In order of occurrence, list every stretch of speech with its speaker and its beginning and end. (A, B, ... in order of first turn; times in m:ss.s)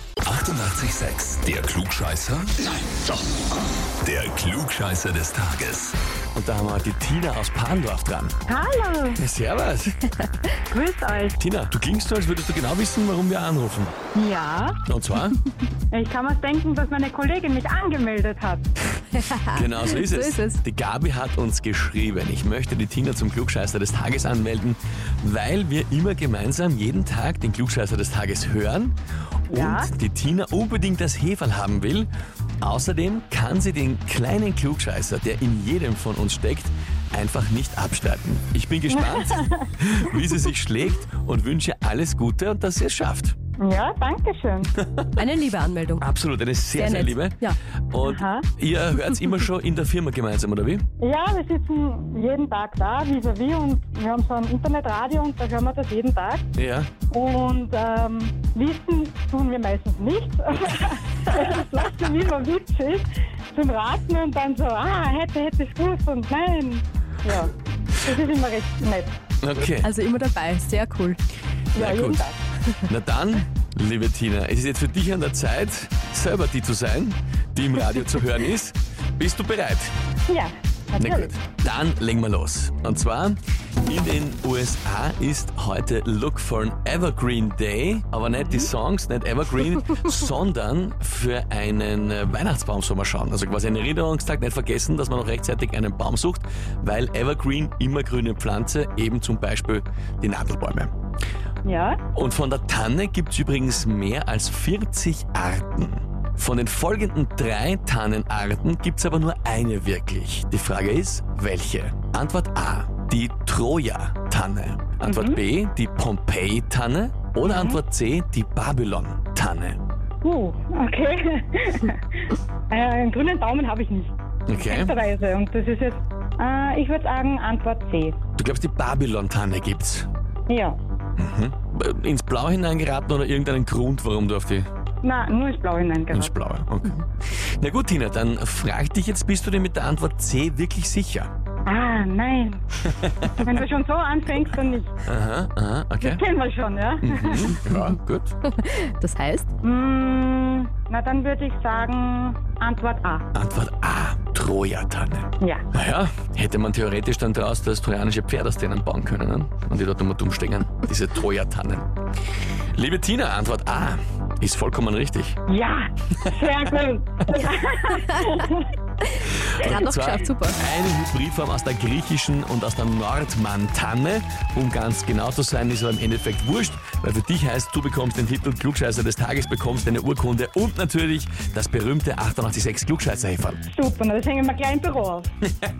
0:00.2-0:02.5 A
0:04.0-0:06.0 A
0:06.3-0:08.4 B
0:08.5-0:09.2 C
0:09.2-0:10.1 B
0:10.7-0:11.4 C
0:11.4-0:13.9 B
0:14.1-0:14.8 C
0:14.8-0:15.4 B
0:15.9-0:18.6 C
0:19.1-0:20.6 D
0:19.5-0:29.0 B
0:29.5-0:32.1 B
0:29.5-0:29.9 C
0:32.6-0:43.3 B
0:38.9-0:39.7 C
0:43.6-0:44.7 C
0:44.7-0:45.2 B
0:45.2-0:46.1 D
0:46.0-0:50.8 B
0:46.7-0:47.6 D
0:48.0-0:48.5 C
0:51.0-0:56.4 C
0:56.5-0:56.9 B
0:57.1-1:09.1 C
1:09.4-1:09.9 B
1:09.8-1:11.2 D
1:11.7-1:12.4 C
1:11.8-1:12.2 B
1:12.8-1:19.9 B
1:20.3-1:21.3 C
1:21.0-1:40.9 B
1:41.6-1:42.0 C
1:42.1-1:59.8 B
1:55.0-1:55.4 C
1:57.4-1:57.8 C
2:00.2-2:02.0 C
2:02.7-2:08.2 C
2:04.5-2:04.9 B
2:08.4-2:10.1 B
2:10.5-2:10.8 C
2:11.2-2:14.7 B
2:15.0-2:16.3 C
2:16.1-2:21.3 B
2:21.6-2:22.6 C
2:22.9-2:23.4 B
2:23.3-2:24.9 C
2:25.0-2:26.2 B
2:26.0-2:27.6 C
2:27.0-2:28.3 B
2:28.4-2:29.5 D
2:29.6-2:33.2 C
2:33.3-2:41.9 B
2:42.8-2:45.4 B
2:45.5-2:48.7 C
2:49.4-3:03.6 B
2:49.6-2:50.6 D
3:03.7-3:05.3 C